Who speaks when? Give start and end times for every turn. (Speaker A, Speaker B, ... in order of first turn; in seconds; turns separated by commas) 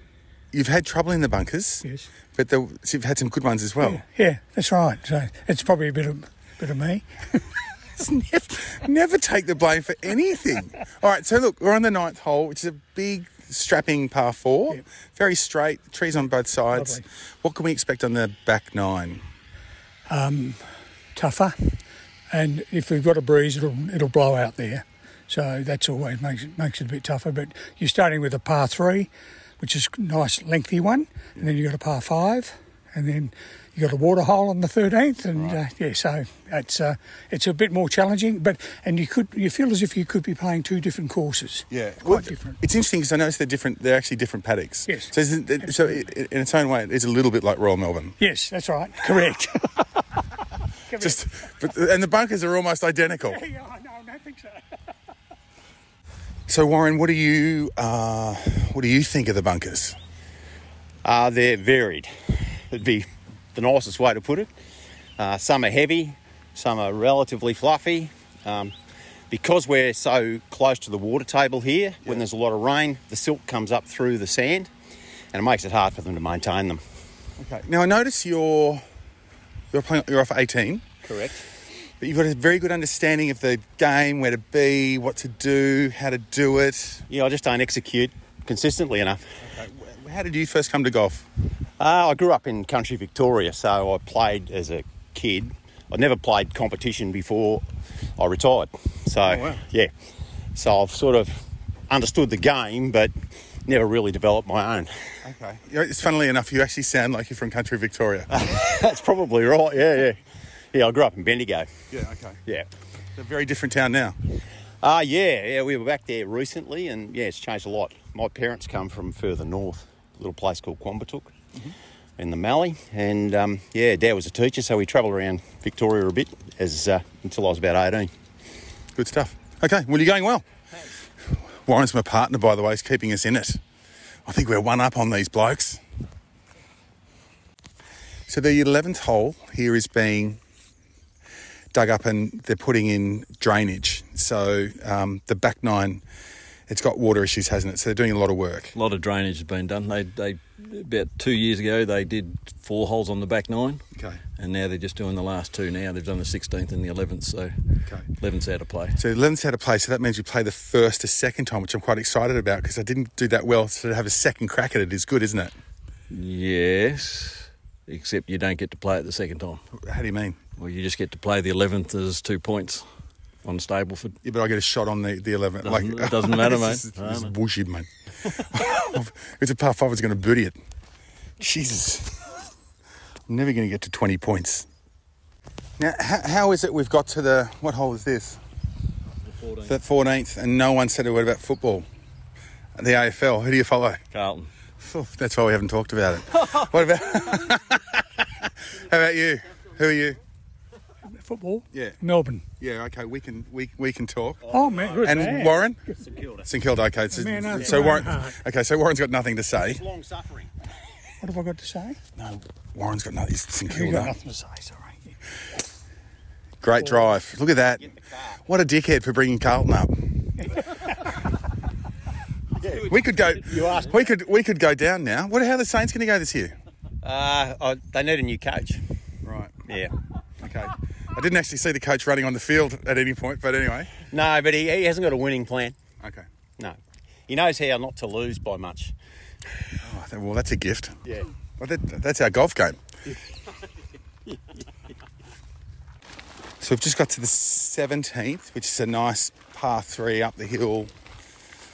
Speaker A: 0.5-4.0, Speaker B: 1.8-2.1, Speaker B: 3.8-7.5, Speaker A: 8.0-19.2, Speaker B: 16.7-17.1, Speaker B: 20.1-42.6, Speaker A: 41.7-48.1, Speaker B: 44.9-46.0, Speaker B: 48.2-50.0, Speaker B: 50.9-51.2, Speaker A: 50.9-53.4, Speaker B: 53.2-54.7, Speaker A: 56.5-60.0, Speaker C: 61.0-64.5, Speaker C: 65.2-68.8, Speaker C: 69.3-74.7, Speaker C: 75.3-76.8, Speaker A: 77.4-78.9, Speaker A: 79.7-80.9, Speaker C: 81.0-81.5, Speaker A: 82.0-87.0, Speaker C: 87.1-89.4, Speaker A: 89.4-91.3, Speaker C: 91.8-99.9, Speaker A: 99.2-99.6, Speaker C: 100.5-105.2, Speaker A: 105.2-108.4, Speaker C: 108.3-111.7, Speaker A: 111.9-112.4, Speaker A: 113.2-114.2, Speaker C: 114.8-121.3, Speaker C: 122.2-128.1, Speaker A: 128.9-130.5, Speaker A: 131.2-133.6, Speaker A: 134.2-135.8, Speaker A: 138.3-140.4, Speaker A: 141.7-146.0, Speaker A: 146.7-148.8, Speaker D: 148.8-153.8, Speaker A: 153.9-154.2, Speaker D: 154.4-157.6, Speaker D: 158.2-159.0, Speaker A: 158.9-165.5, Speaker D: 166.1-169.6, Speaker A: 169.7-170.4, Speaker D: 170.6-172.9, Speaker D: 173.4-174.2, Speaker A: 174.2-180.6, Speaker D: 175.6-177.3, Speaker A: 181.4-182.5, Speaker A: 183.3-184.7, Speaker A: 185.8-188.4, Speaker D: 189.2-189.7, Speaker A: 189.7-191.9, Speaker A: 192.8-194.0, Speaker D: 194.1-194.5, Speaker A: 194.8-198.0, Speaker A: 198.7-200.2, Speaker B: 201.1-202.4, Speaker A: 201.7-202.0, Speaker A: 202.6-204.5, Speaker C: 204.4-205.4, Speaker B: 204.5-205.6, Speaker A: 205.0-205.8, Speaker C: 206.0-206.5, Speaker A: 206.4-209.8, Speaker B: 207.1-208.4, Speaker C: 209.5-210.5, Speaker B: 211.2-212.0, Speaker A: 212.2-214.2, Speaker B: 213.7-215.0, Speaker A: 216.6-217.9, Speaker A: 218.4-220.3, Speaker C: 222.6-224.1, Speaker A: 222.7-226.6, Speaker C: 227.0-228.9, Speaker A: 229.2-229.6, Speaker C: 229.7-230.0, Speaker A: 230.4-233.9, Speaker C: 234.0-235.8, Speaker A: 236.0-236.3, Speaker C: 236.6-239.0, Speaker A: 239.8-241.0, Speaker C: 241.1-241.3, Speaker A: 241.6-242.9, Speaker A: 246.6-250.9